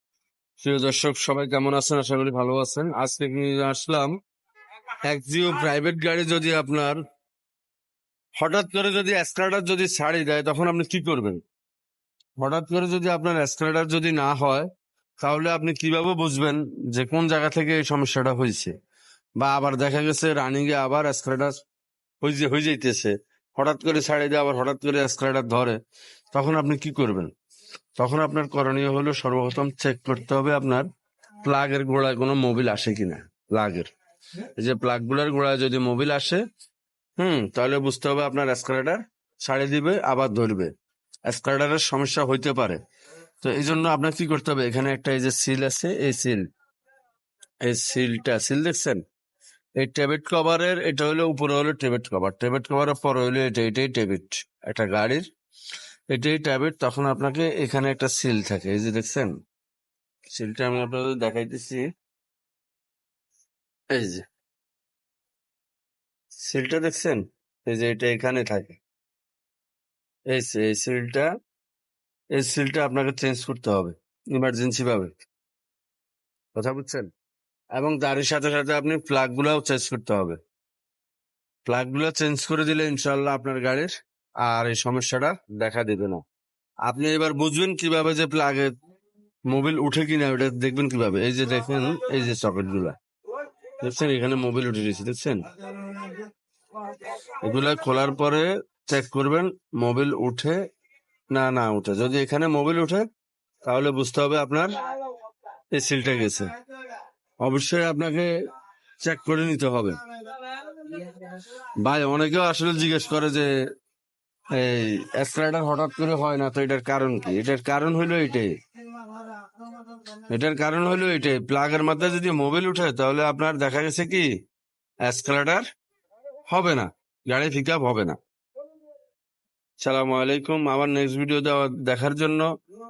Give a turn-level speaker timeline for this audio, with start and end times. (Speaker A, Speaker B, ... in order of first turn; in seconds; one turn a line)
Speaker A: 0.6-4.1
Speaker A: 5.0-7.0
Speaker A: 8.4-11.4
Speaker A: 12.4-14.7
Speaker A: 15.2-18.7
Speaker A: 19.4-21.6
Speaker A: 22.2-25.8
Speaker A: 26.3-27.3
Speaker A: 28.0-30.9
Speaker A: 31.4-33.9
Speaker A: 34.6-36.4
Speaker A: 37.2-40.7
Speaker A: 41.3-42.8
Speaker A: 43.4-46.4
Speaker A: 47.6-49.0
Speaker A: 49.8-55.2
Speaker A: 56.1-59.3
Speaker A: 60.3-61.9
Speaker A: 63.9-64.2
Speaker A: 66.3-68.8
Speaker A: 70.3-71.3
Speaker A: 72.3-75.1
Speaker A: 76.5-77.1
Speaker A: 77.7-80.4
Speaker A: 81.6-83.9
Speaker A: 84.4-86.2
Speaker A: 86.8-88.7
Speaker A: 89.5-93.0
Speaker A: 93.8-96.2
Speaker A: 96.9-100.6
Speaker A: 101.3-103.0
Speaker A: 103.7-104.7
Speaker A: 105.7-106.5
Speaker A: 107.4-108.3
Speaker A: 109.0-110.0
Speaker A: 110.6-111.2
Speaker A: 111.8-113.5
Speaker A: 114.5-118.5
Speaker A: 120.3-124.3
Speaker A: 125.0-125.6
Speaker A: 126.5-128.2
Speaker A: 129.8-132.5